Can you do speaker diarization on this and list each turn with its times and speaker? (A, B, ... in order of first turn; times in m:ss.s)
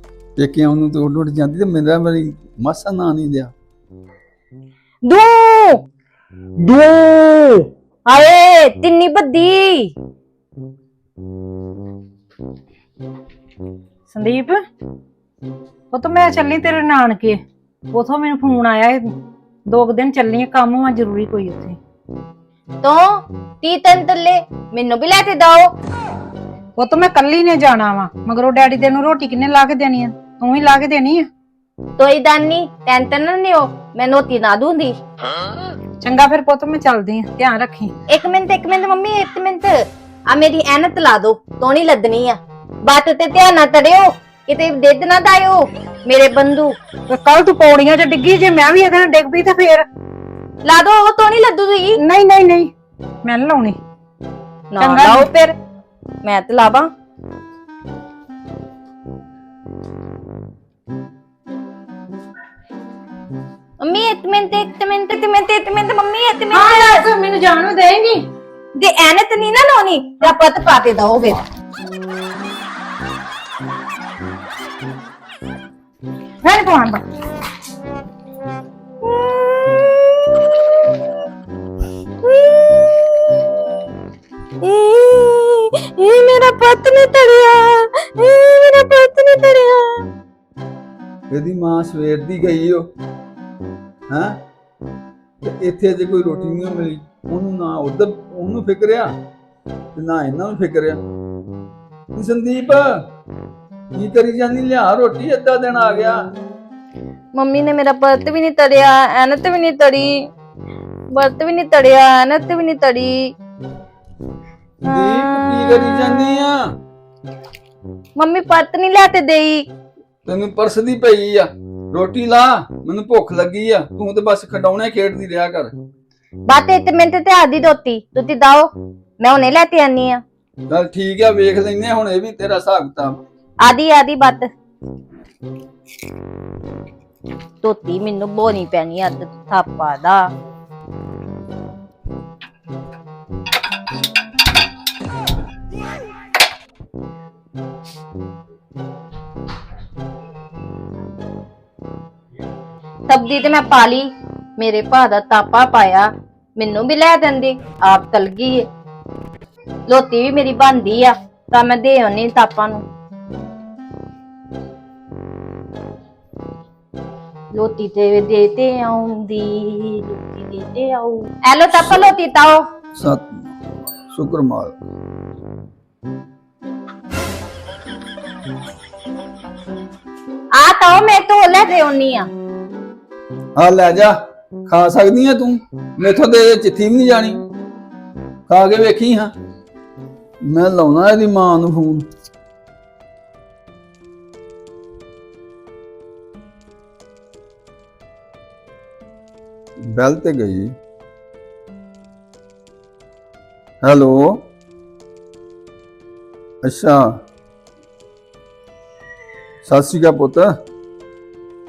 0:00.4-0:03.5 A
0:05.0-0:05.8 B
0:06.6-0:09.9 B
0:14.1-0:14.6 C
0:15.9-0:17.4 C
0:17.9-0:19.0 C
0:19.7-0:21.8 C
0:22.8-0:25.7 B
0:26.8-0:31.2 C
0:32.0-0:35.0 B
0:36.0-0:37.9 C
0:38.1-0:39.8 B
0:40.3-0:46.8 B
0:47.1-0:49.8 C
0:50.6-0:52.0 B
0:52.0-0:52.7 C
0:53.2-0:53.8 C
0:54.7-0:55.6 B
0:54.8-0:55.3 C
0:56.2-0:56.9 B
1:03.8-1:07.0 B
1:06.5-1:08.2 C
1:08.8-1:11.4 B
1:16.4-1:17.0 C
1:19.0-1:21.0 B
1:22.2-1:23.6 B
1:24.6-1:30.1 B
1:31.3-1:32.8 A
1:34.1-1:34.4 A
1:35.4-1:39.1 A
1:39.9-1:41.0 A
1:42.1-1:43.0 A
1:43.9-1:46.2 A
1:47.3-1:50.3 B
1:51.1-1:53.3 B
1:54.8-1:56.6 A
1:54.8-1:56.2 B
1:58.2-1:59.7 B
2:00.2-2:05.7 A
2:06.5-2:08.7 B
2:09.2-2:10.2 B
2:10.7-2:13.2 A
2:13.6-2:14.5 B
2:17.6-2:20.3 B
2:33.1-2:38.6 B
2:39.9-2:42.8 B
2:47.5-2:52.6 B
2:52.9-2:54.8 A
3:00.5-3:02.3 B
3:03.6-3:04.2 A
3:04.7-3:07.4 A
3:08.5-3:09.3 A
3:10.4-3:12.0 A
3:19.8-3:20.7 A
3:23.8-3:24.4 A
3:26.6-3:27.0 A
3:29.6-3:30.5 A